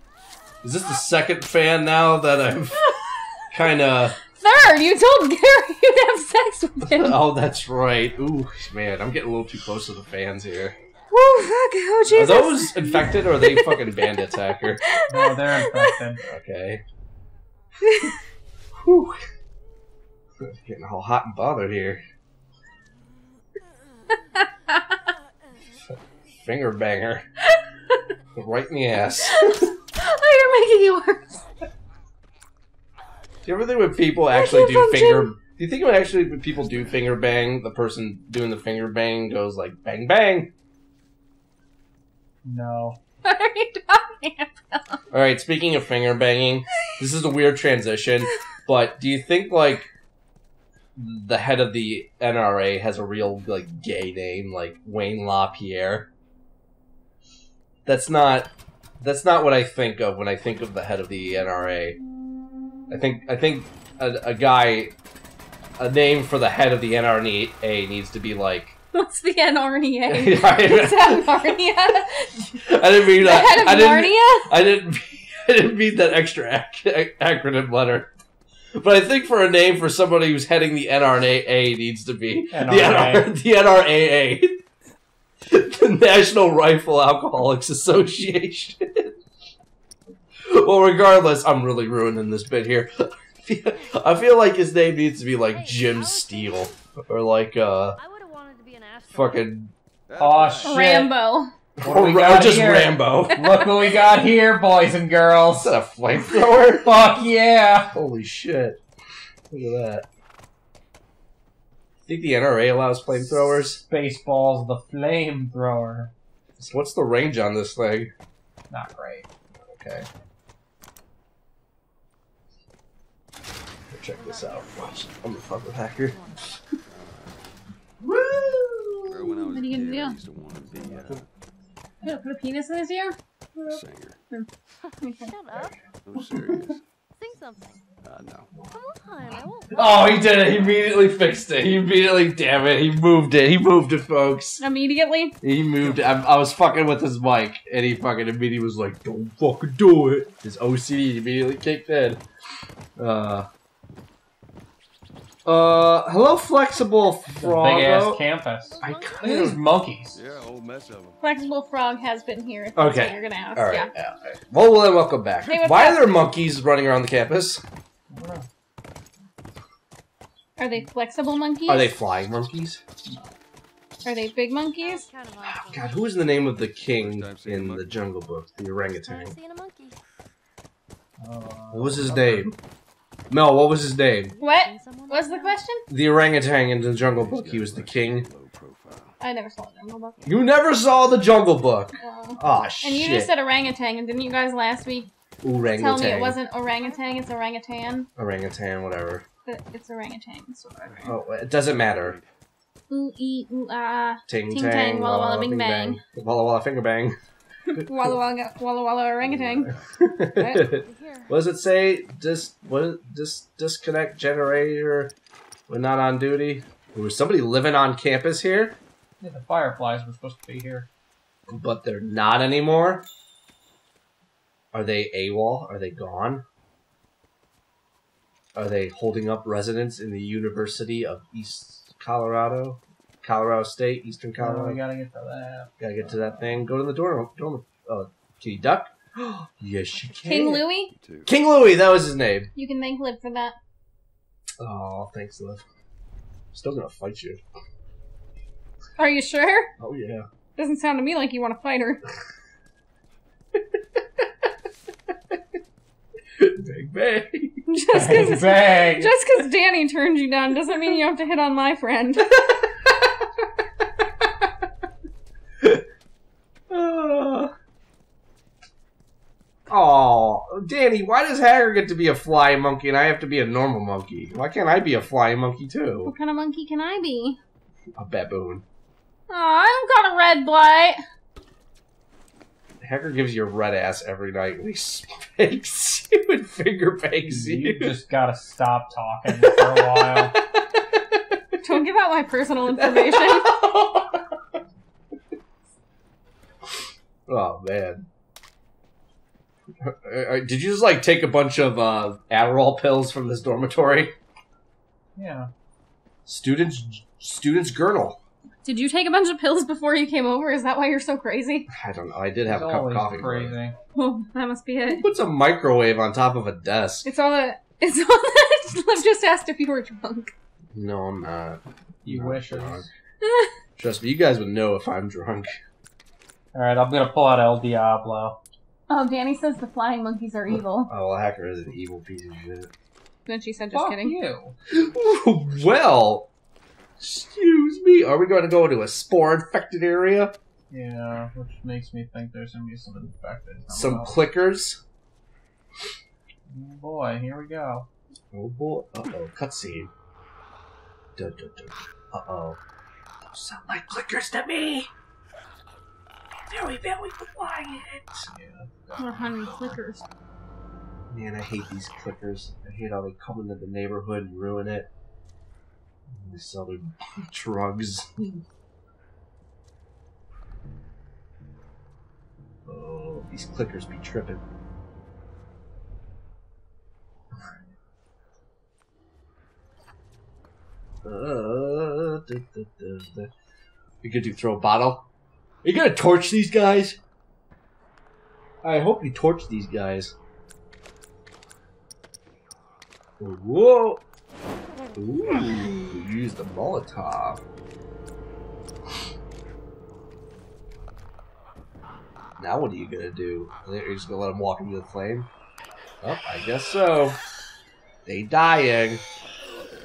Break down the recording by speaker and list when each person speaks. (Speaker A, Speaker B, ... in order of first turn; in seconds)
Speaker A: 0.6-2.9, 3.5-4.2, 6.8-10.8, 12.1-14.9, 16.3-16.8, 18.8-19.2, 20.4-22.0, 26.4-27.2, 28.4-29.7, 33.5-40.5, 45.1-49.9, 51.0-56.1, 57.9-58.5, 59.0-62.0, 62.9-64.9, 65.8-68.8, 70.1-71.5, 72.6-78.1, 78.8-84.6, 85.5-89.2, 90.5-98.0, 99.1-99.7, 101.8-103.6, 105.6-106.9, 107.9-108.8, 109.5-110.1, 112.1-113.8, 116.6-118.1, 119.6-120.1, 123.9-126.2, 128.0-129.4, 130.9-131.2, 139.7-144.6, 145.4-152.2, 153.0-153.5, 155.5-158.2, 158.8-159.6, 162.8-167.6, 171.7-172.9, 175.4-179.4, 181.7-182.5, 183.3-184.3, 185.9-188.3, 190.3-193.3, 195.4-196.4, 198.2-199.2, 201.0-202.2, 204.3-207.2, 207.8-208.2, 209.4-215.1, 215.7-218.8, 221.5-223.1, 224.7-226.4, 228.6-234.8, 235.8-240.7, 241.3-242.5, 244.6-245.6, 246.5-247.4, 249.8-250.3, 253.6-254.2, 256.4-257.6, 262.3-263.3, 266.7-267.5, 269.7-276.1, 278.0-278.6, 282.8-288.0, 289.3-291.6, 292.7-294.2, 297.3-298.1, 299.8-304.1, 306.3-308.2, 311.7-313.6, 314.9-317.1, 320.8-322.9, 323.8-325.6, 330.5-332.7, 334.7-336.3, 337.0-340.4, 343.7-344.8, 348.3-349.9, 351.2-352.6, 353.3-354.9, 356.5-359.0, 361.1-364.9, 366.1-368.4, 372.7-374.4, 377.4-377.6, 381.0-383.3, 384.0-385.1, 385.6-387.0, 388.6-390.1, 393.2-394.0, 395.0-397.4, 402.4-405.3, 406.0-407.2, 408.1-409.0
Speaker B: 2.8-3.4, 4.3-7.2, 11.1-14.3, 14.8-16.0, 17.9-18.1, 29.3-31.4, 34.3-35.3, 43.2-45.0, 68.9-74.5, 100.6-101.5, 129.5-130.2, 132.0-133.2, 135.0-135.3, 144.6-145.4, 161.2-163.9, 165.5-166.1, 170.6-171.9, 174.1-175.1, 184.4-185.8, 189.2-190.2, 192.0-195.1, 195.7-198.1, 199.5-201.0, 202.9-206.0, 207.7-209.7, 210.4-210.7, 240.2-240.9, 242.6-243.6, 249.0-249.7, 250.6-252.0, 257.7-262.4, 276.1-277.4, 279.3-281.0, 291.6-293.6, 308.6-311.7, 313.9-315.1, 317.1-320.3, 323.2-323.5, 328.9-330.9, 333.3-334.2, 359.0-360.0
Speaker C: 15.1-16.2, 42.5-43.0, 82.5-83.3, 100.2-101.1, 101.8-105.8, 106.8-108.0, 113.5-116.1, 118.7-119.3, 157.4-160.2, 168.1-168.5, 181.2-182.5, 219.2-220.9, 234.4-236.6, 257.9-259.1, 287.2-290.4, 305.2-305.5, 312.5-313.8, 322.1-322.9, 326.5-328.4, 333.7-334.6, 340.7-344.2, 346.5-347.9, 358.3-358.6
Speaker D: 93.7-94.1, 95.4-96.9, 98.0-99.5, 124.1-126.4, 134.8-135.8, 137.2-137.8, 138.6-140.4, 158.6-159.6, 174.8-176.4, 178.9-180.0, 184.2-185.7, 190.1-190.7, 196.8-197.2, 210.6-211.4
Speaker E: 100.1-100.8, 126.9-127.4, 129.1-131.3, 133.7-134.2, 136.0-136.8, 138.0-138.6, 160.1-161.2, 176.8-178.0, 186.8-189.2, 200.9-202.3, 209.2-210.1, 239.9-241.3